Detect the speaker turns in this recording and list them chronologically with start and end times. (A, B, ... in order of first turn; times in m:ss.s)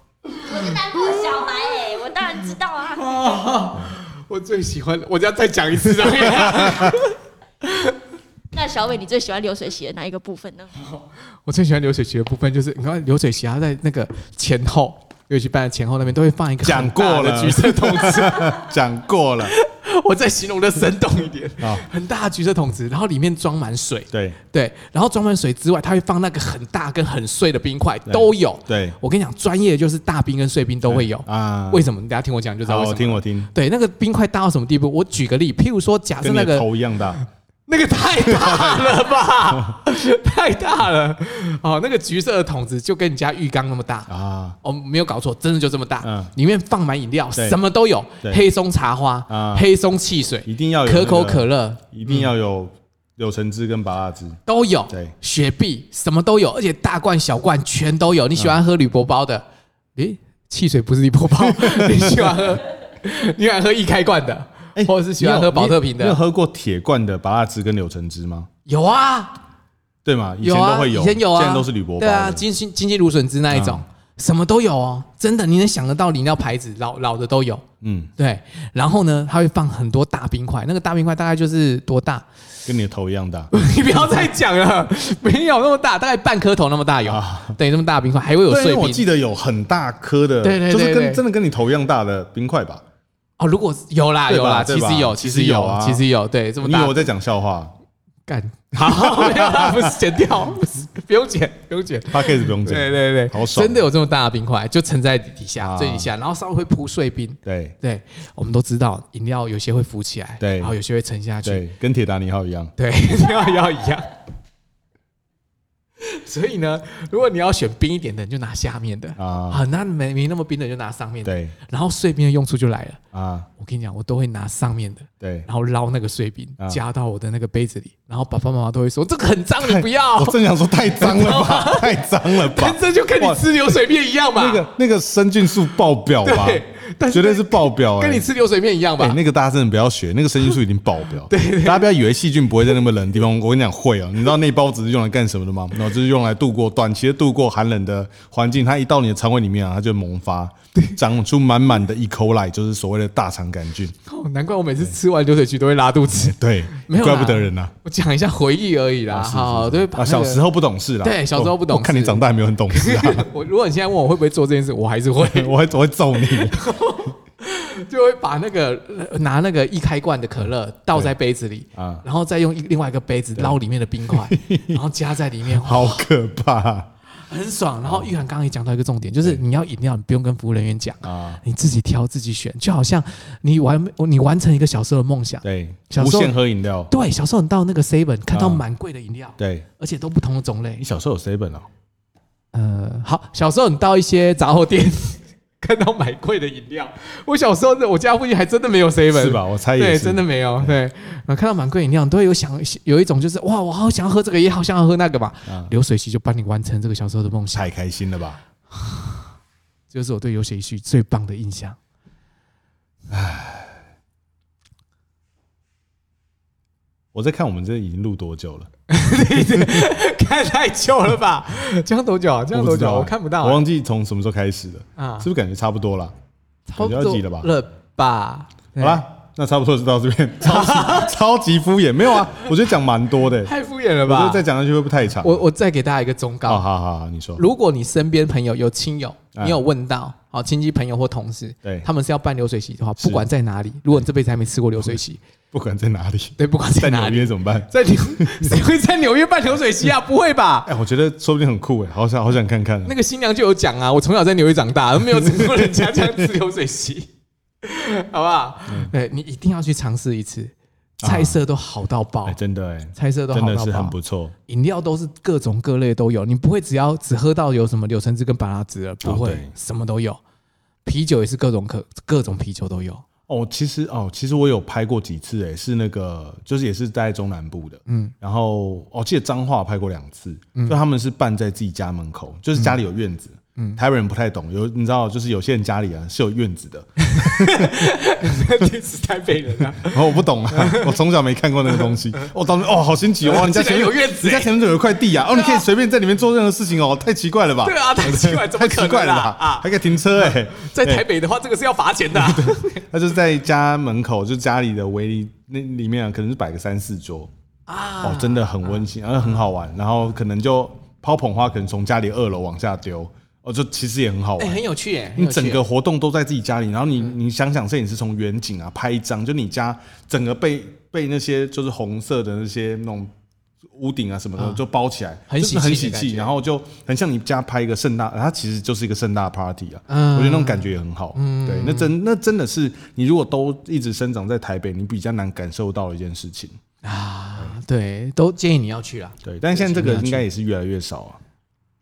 0:00.4-0:03.5 A
0:03.0-0:08.0 B
0:06.6-0:06.9 C
0:08.5-0:10.8 A
0:11.4-0:18.7 B
0:16.6-0:19.5 C
0:19.4-0:36.6 B
0:21.6-0:21.8 C
0:24.1-0:24.4 C
0:28.1-0:29.0 C
0:30.9-0:31.9 C
0:32.6-0:33.5 C
0:36.2-0:37.2 C
0:37.2-0:44.1 B
0:38.2-0:38.9 C
0:44.1-0:44.6 C
0:44.6-0:52.3 B
0:46.0-0:46.3 C
0:49.3-0:49.7 C
0:50.4-0:55.1 C
0:54.4-1:06.2 B
1:01.4-1:02.4 C
1:04.7-1:08.5 C
1:08.6-1:09.4 B
1:10.0-1:12.4 C
1:10.4-1:17.6 B
1:13.5-1:13.8 C
1:17.8-1:18.1 C
1:18.2-1:22.3 B
1:22.6-1:24.3 C
1:23.5-1:29.0 B
1:27.1-1:27.6 C
1:28.4-1:32.8 C
1:30.4-1:31.2 B
1:33.4-1:37.0 B
1:34.3-1:36.0 C
1:36.6-1:37.7 C
1:38.3-1:51.6 B
1:38.8-1:39.9 C
1:42.1-1:43.8 C
1:45.6-1:46.1 C
1:47.4-1:47.8 C
1:50.4-1:50.7 C
1:51.4-1:52.7 C
1:52.8-1:54.1 B
1:56.0-2:03.0 B
1:59.2-1:59.6 C
2:01.2-2:01.5 C
2:03.1-2:03.5 C
2:03.6-2:10.4 B
2:05.2-2:05.5 C
2:09.6-2:13.4 C
2:10.9-2:14.6 B
2:14.3-2:18.3 C
2:16.2-2:19.2 B
2:19.0-2:33.9 C
2:21.3-2:21.9 B
2:34.0-2:40.4 B
2:36.2-2:37.7 C
2:39.1-2:43.3 C
2:41.0-2:45.5 B
2:45.2-2:46.6 C
2:46.2-2:56.0 B
2:51.8-2:52.0 C
2:53.4-2:54.8 C
2:55.4-2:56.9 C
2:57.3-3:06.4 B
2:57.8-2:58.1 C
3:01.0-3:01.4 C
3:05.4-3:06.9 C
3:06.9-3:10.8 B
3:08.3-3:08.6 C
3:09.4-3:09.7 C
3:10.8-3:11.7 C
3:12.5-3:27.7 B
3:19.1-3:20.8 C
3:25.5-3:25.7 C
3:27.5-3:28.4 C
3:28.7-3:29.2 B
3:29.9-3:31.8 B
3:33.1-3:33.7 C
3:37.1-3:38.7 C
3:38.9-3:43.6 B
3:39.4-3:39.8 C
3:42.5-3:46.1 C
3:45.0-3:45.3 B
3:46.7-3:49.0 B
3:46.8-3:47.5 C
3:48.8-3:53.5 C
3:50.4-3:51.1 B
3:53.4-3:54.4 B
3:54.0-3:55.4 C
3:55.2-3:56.6 B
3:56.4-3:57.4 C
3:57.4-4:05.2 B
4:03.0-4:03.2 C
4:05.5-4:08.6 C
4:06.4-4:10.7 B
4:10.6-4:12.9 C
4:12.8-4:17.1 B
4:15.1-4:16.3 C
4:17.6-4:22.4 B
4:18.7-4:18.9 C
4:21.0-4:21.4 C
4:22.2-4:24.3 C
4:22.9-4:23.9 B
4:24.5-4:30.2 B
4:29.0-4:29.5 C
4:30.8-4:33.0 B
4:33.3-4:47.9 C
4:37.9-4:38.1 B
4:47.0-4:50.9 B
4:49.7-5:01.0 C
4:51.7-4:52.2 B
4:53.2-4:54.5 B
4:55.3-4:55.6 B
4:57.6-5:02.8 B
5:02.1-5:07.3 C
5:07.7-5:09.4 B
5:08.0-5:14.6 C
5:14.4-5:15.6 B
5:15.2-5:23.1 C
5:23.7-5:36.6 C
5:25.3-5:26.3 B
5:29.9-5:31.9 B
5:36.8-5:40.2 B
5:39.2-5:41.2 C